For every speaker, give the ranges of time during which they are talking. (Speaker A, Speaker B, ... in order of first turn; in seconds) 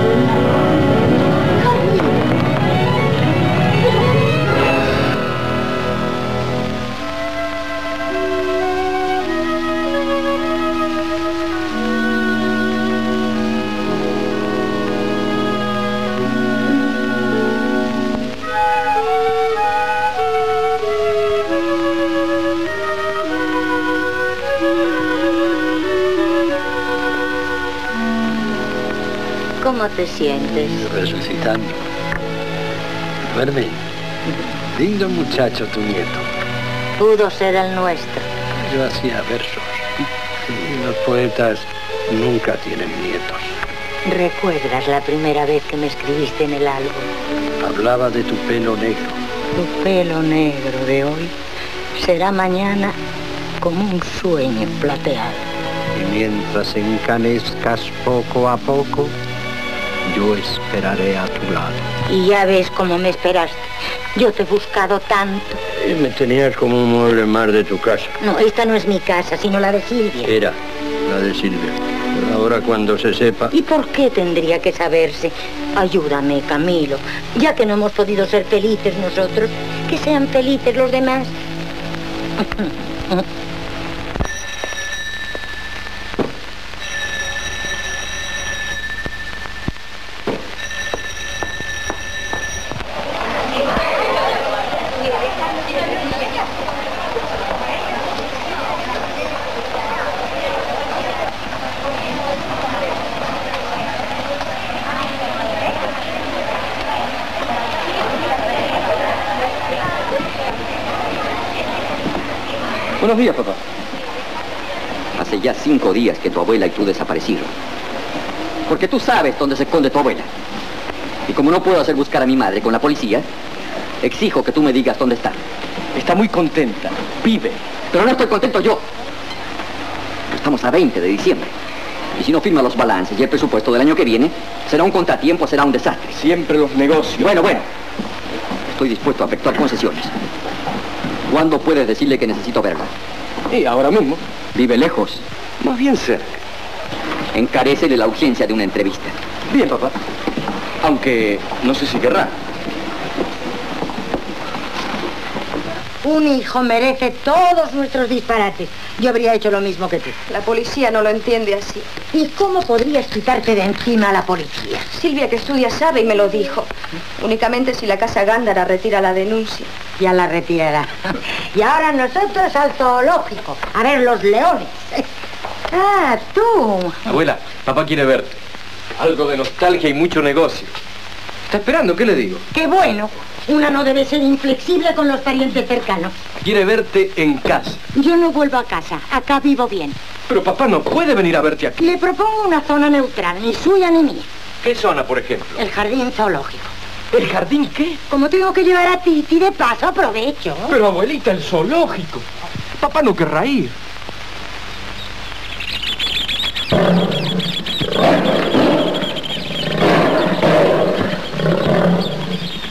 Speaker A: 1.6-2.1, 29.6-30.9, 37.0-38.3, 44.0-47.1, 49.5-51.3, 52.0-53.0, 53.6-55.5, 62.1-65.6, 68.2-70.4, 73.5-81.3, 82.4-83.3, 156.0-160.2, 162.1-164.9, 170.0-175.1, 175.7-177.0, 182.5-186.1, 187.9-190.0, 191.8-194.3, 195.6-196.7, 198.1-200.8
Speaker B: 30.8-31.8, 33.3-33.8, 34.8-36.2, 38.6-43.6, 47.6-49.2, 55.9-59.1, 60.0-61.9, 65.7-68.2, 70.2-73.5
Speaker C: 113.0-113.6, 126.0-127.6, 136.1-137.6, 143.5-144.2, 145.6-146.4, 149.5-149.9, 150.8-152.3, 177.1-178.4, 179.0-180.7, 181.5-182.4, 186.4-187.8, 190.3-191.9, 194.6-195.6, 197.1-198.0, 200.7-202.3, 202.8-203.7
Speaker D: 115.2-117.5, 118.7-120.3, 121.3-123.3, 124.0-125.4, 127.9-128.8, 130.3-131.5, 132.2-136.2, 137.2-137.7, 138.7-140.1, 141.3-142.9, 144.6-145.2, 147.3-149.2
Speaker E: 160.3-161.9, 164.9-169.7